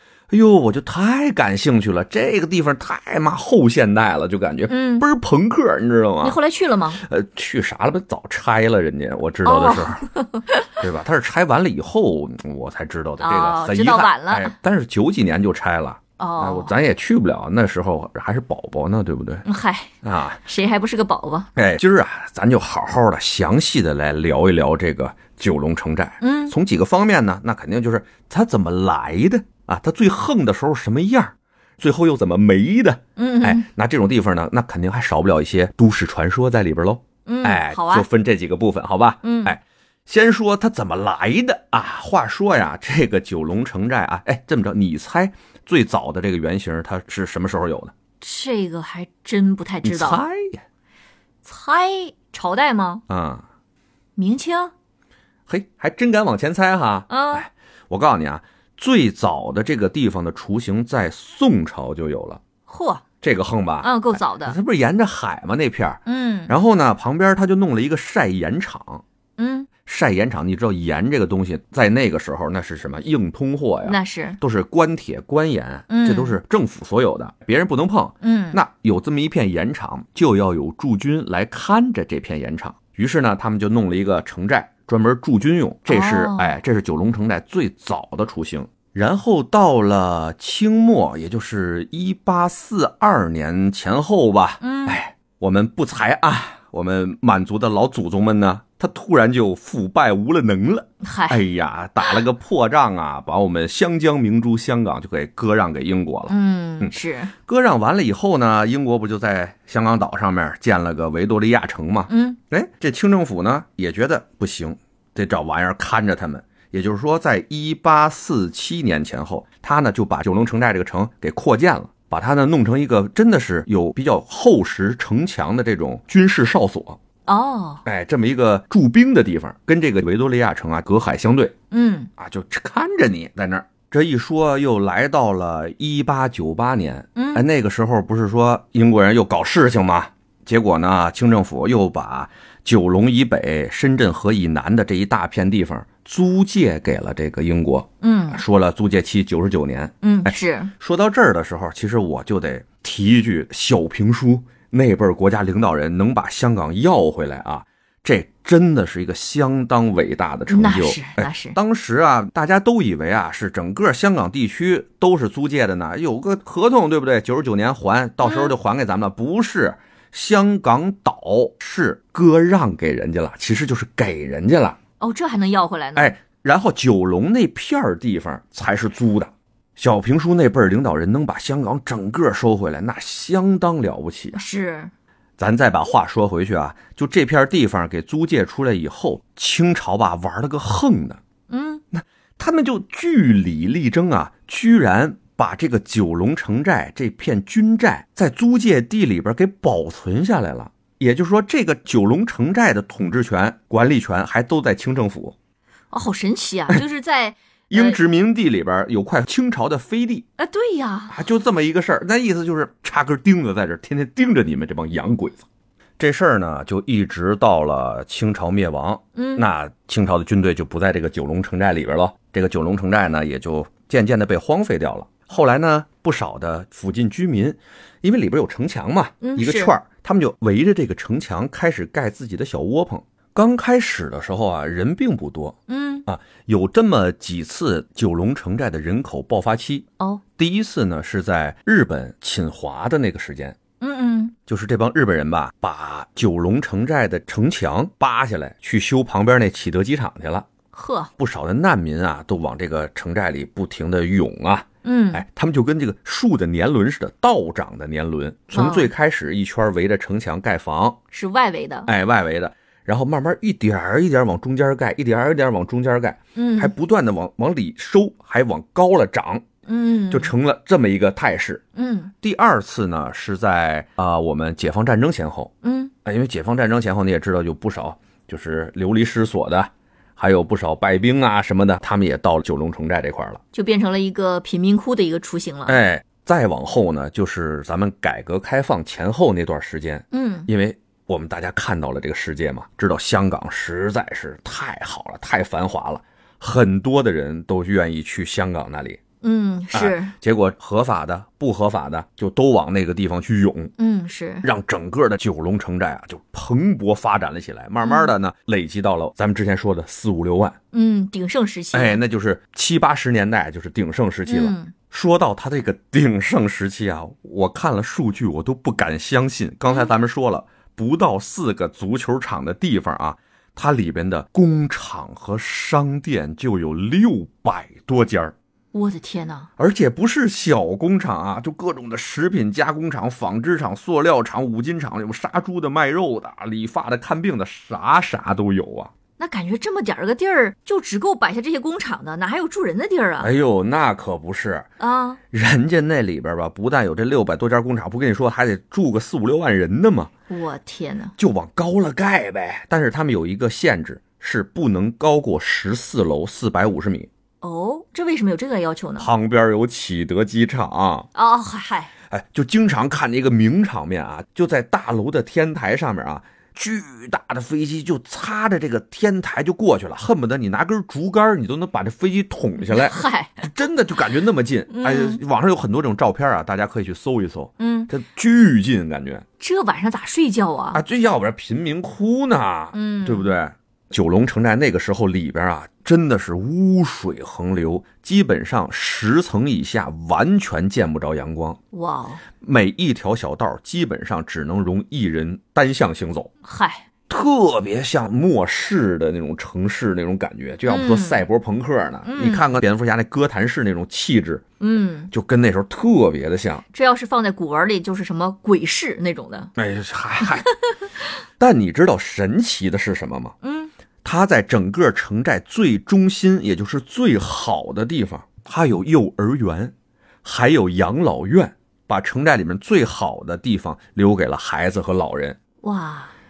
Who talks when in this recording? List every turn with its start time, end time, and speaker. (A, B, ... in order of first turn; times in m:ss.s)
0:00.3-0:06.4 A
0:04.7-0:05.1 B
0:06.2-0:07.0 B
0:07.0-0:10.0 A
0:09.4-0:10.8 B
0:10.8-0:19.4 A
0:13.2-0:14.5 B
0:16.2-0:16.7 B
0:19.4-0:21.5 B
0:20.0-0:20.4 A
0:21.6-0:47.9 A
0:26.2-0:26.5 B
0:33.2-0:33.7 B
0:37.2-0:38.1 B
0:39.2-0:39.5 B
0:48.2-0:50.2 B
0:49.8-0:50.6 A
0:51.4-0:53.0 B
0:53.1-0:53.4 A
0:54.2-0:54.7 B
0:55.5-1:02.4 A
0:57.1-0:57.5 B
1:02.7-1:03.0 B
1:03.2-1:09.0 A
1:03.8-1:04.6 B
1:06.1-1:06.5 B
1:09.4-1:09.7 B
1:09.8-2:07.0 A
1:13.8-1:14.4 B
1:15.9-1:16.4 B
1:18.2-1:18.6 B
1:25.9-1:26.6 B
1:34.6-1:35.0 B
1:41.0-1:41.5 B
1:46.3-1:47.3 B
1:52.1-1:52.4 B
2:07.2-2:07.8 B
2:07.8-2:11.5 A
2:11.7-2:12.1 B
2:12.2-2:54.8 A
2:17.2-2:17.4 B
2:28.0-2:28.4 B
2:30.0-2:30.7 B
2:40.5-2:41.6 B
2:48.2-2:48.5 B
2:55.0-2:56.2 B
2:56.0-3:04.4 A
3:04.3-3:04.9 B
3:05.4-3:11.2 A
3:11.5-3:11.8 B
3:11.9-3:25.4 A
3:25.9-3:28.0 B
3:27.7-3:30.3 A
3:30.4-3:31.1 B
3:31.1-3:35.4 A
3:36.0-4:03.6 A
3:39.2-3:39.4 B
3:49.2-3:49.7 B
3:55.7-3:56.0 B
4:03.8-4:04.3 B
4:04.4-4:10.5 A
4:10.7-4:11.1 B
4:11.2-4:21.0 A
4:14.8-4:15.2 B
4:18.5-4:18.9 B
4:21.1-4:21.9 B
4:21.8-4:29.4 A
4:26.3-4:26.7 B
4:29.6-4:30.3 B
4:30.1-4:31.6 A
4:31.7-4:32.1 B
4:32.2-4:35.5 A
4:35.6-4:35.9 B
4:36.0-4:43.4 A
4:43.5-4:45.8 B
4:45.6-4:59.0 A
4:50.1-4:50.5 B
4:59.2-5:00.1 B
4:59.7-5:03.7 A
5:03.8-5:04.5 B
5:04.4-5:10.6 A
5:07.8-5:08.1 B
5:10.7-5:12.0 B
5:11.7-5:28.3 A
5:14.3-5:14.7 B
5:28.7-5:29.5 B
5:29.6-5:38.9 A
5:39.2-5:43.3 B
5:43.2-5:44.7 A
5:44.8-5:45.2 B
5:45.3-5:50.1 A
5:50.3-5:51.1 B
5:51.2-5:57.1 A
5:57.4-5:59.1 B
5:59.0-6:01.1 A
6:01.1-6:01.9 B
6:02.1-6:19.2 A
6:12.6-6:13.5 B
6:14.7-6:15.2 B
6:17.6-6:17.9 B
6:19.4-6:20.8 B
6:20.7-6:31.6 A
6:22.7-6:23.3 B
6:31.7-6:32.2 B
6:32.4-6:36.3 A
6:36.4-6:36.8 B
6:37.1-6:44.4 A
6:40.6-6:41.2 B
6:42.0-6:42.6 B
6:44.6-6:45.1 B
6:45.1-6:46.6 A
6:46.7-6:49.5 B
6:49.6-6:50.5 A
6:51.4-6:53.3 A
6:53.4-6:53.7 B
6:54.0-7:05.4 A
7:05.6-7:06.1 B